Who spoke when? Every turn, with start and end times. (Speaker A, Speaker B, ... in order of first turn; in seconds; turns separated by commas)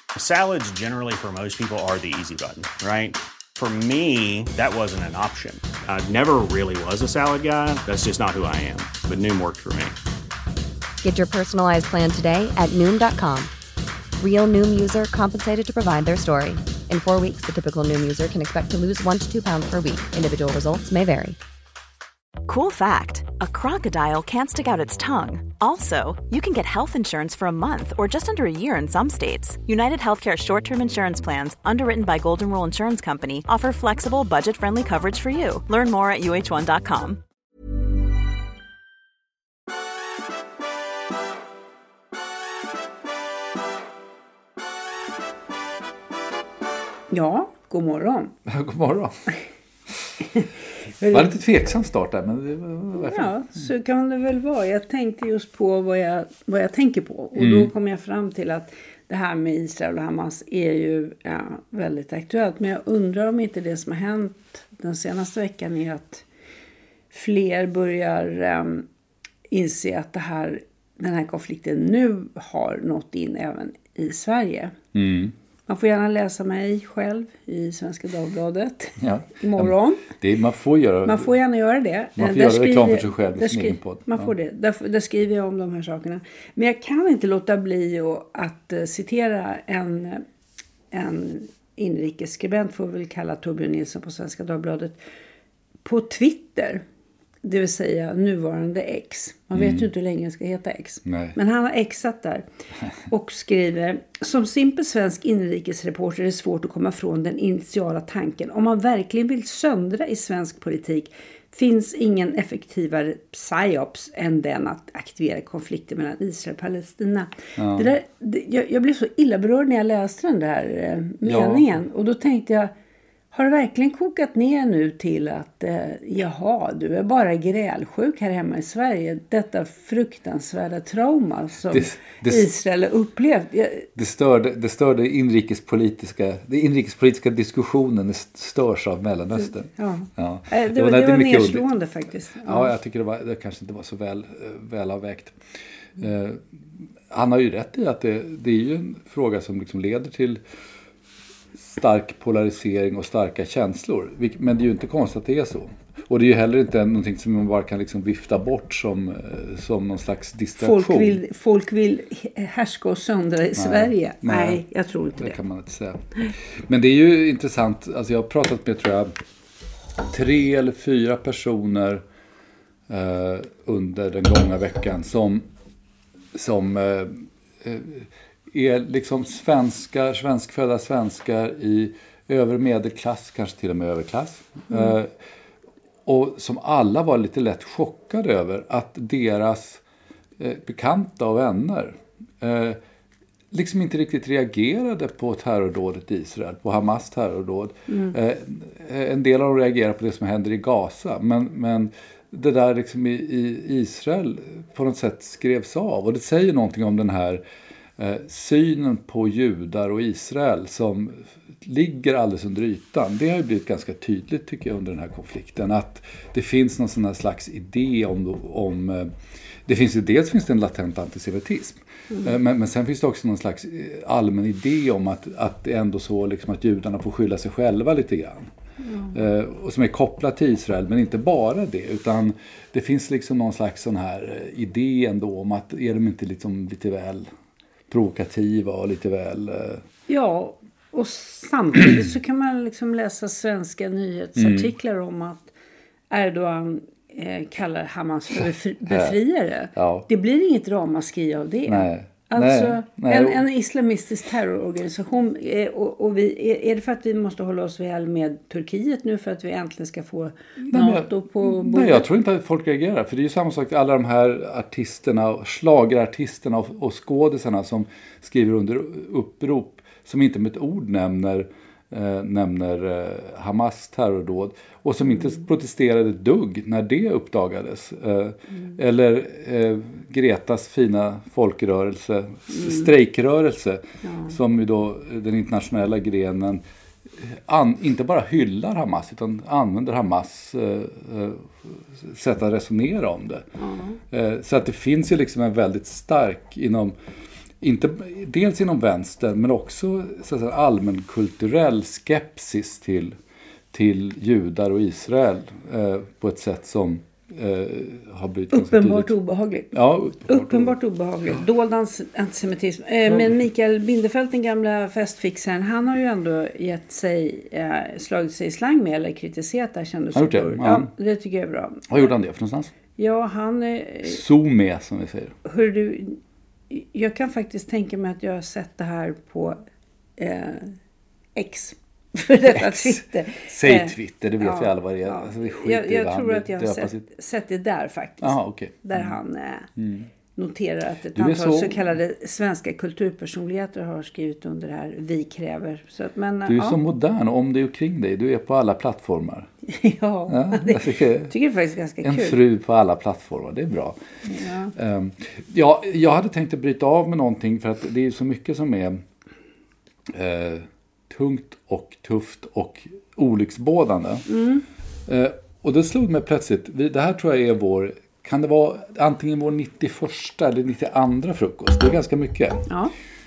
Speaker A: 0.1-9.9, Speaker B: 11.0-13.5, Speaker B: 14.2-21.4, Speaker C: 22.4-37.2, Speaker D: 47.1-48.3, Speaker E: 48.5-49.3, Speaker E: 51.0-53.3, Speaker D: 52.9-66.2, Speaker E: 57.3-57.7, Speaker D: 67.1-68.9, Speaker D: 69.5-74.7, Speaker E: 74.9-75.3, Speaker D: 75.7-80.1, Speaker E: 79.0-81.3, Speaker D: 81.0-90.2, Speaker E: 82.2-84.3, Speaker D: 90.9-95.0, Speaker D: 95.8-96.8, Speaker D: 97.4-102.4, Speaker E: 99.5-99.8, Speaker E: 101.0-101.3, Speaker D: 103.1-122.7, Speaker E: 117.6-117.9, Speaker E: 121.2-121.6, Speaker D: 123.3-133.9, Speaker E: 131.7-132.5, Speaker E: 133.9-141.7, Speaker D: 139.8-142.7, Speaker E: 142.4-145.4, Speaker E: 146.0-146.4, Speaker E: 147.1-150.4, Speaker E: 151.6-161.2, Speaker D: 160.6-165.4, Speaker E: 163.6-164.6, Speaker E: 165.2-169.1, Speaker E: 170.1-172.0, Speaker E: 172.9-175.4, Speaker E: 176.3-185.1, Speaker E: 186.1-189.8, Speaker E: 190.4-192.8, Speaker E: 193.5-207.4, Speaker D: 197.9-198.1, Speaker E: 208.0-219.1, Speaker E: 219.7-228.5, Speaker D: 228.8-229.1, Speaker E: 229.1-237.3, Speaker E: 237.9-239.8, Speaker D: 240.1-245.5, Speaker E: 244.3-244.7, Speaker D: 246.1-262.1, Speaker E: 248.9-249.2, Speaker E: 249.7-250.1, Speaker E: 251.7-253.4, Speaker E: 260.6-286.6, Speaker D: 282.5-282.9, Speaker D: 284.0-284.3, Speaker E: 287.2-293.4, Speaker D: 293.6-294.0, Speaker E: 294.1-296.9, Speaker E: 297.6-303.2, Speaker E: 303.7-309.1, Speaker D: 308.5-321.9, Speaker E: 309.7-310.7, Speaker E: 320.1-320.9, Speaker E: 321.9-322.7, Speaker D: 322.9-324.2, Speaker E: 324.0-325.3, Speaker D: 325.4-326.2, Speaker D: 326.7-329.6, Speaker D: 330.2-330.8, Speaker D: 331.4-339.7, Speaker E: 332.5-337.0, Speaker E: 338.2-339.1, Speaker E: 339.8-340.1, Speaker D: 340.3-346.8, Speaker E: 341.1-341.8, Speaker E: 346.4-349.5, Speaker D: 349.6-352.4, Speaker E: 350.3-351.3, Speaker E: 352.0-354.0, Speaker D: 354.3-354.7, Speaker E: 354.7-359.0, Speaker E: 360.1-364.2, Speaker D: 364.3-364.6, Speaker E: 365.1-372.6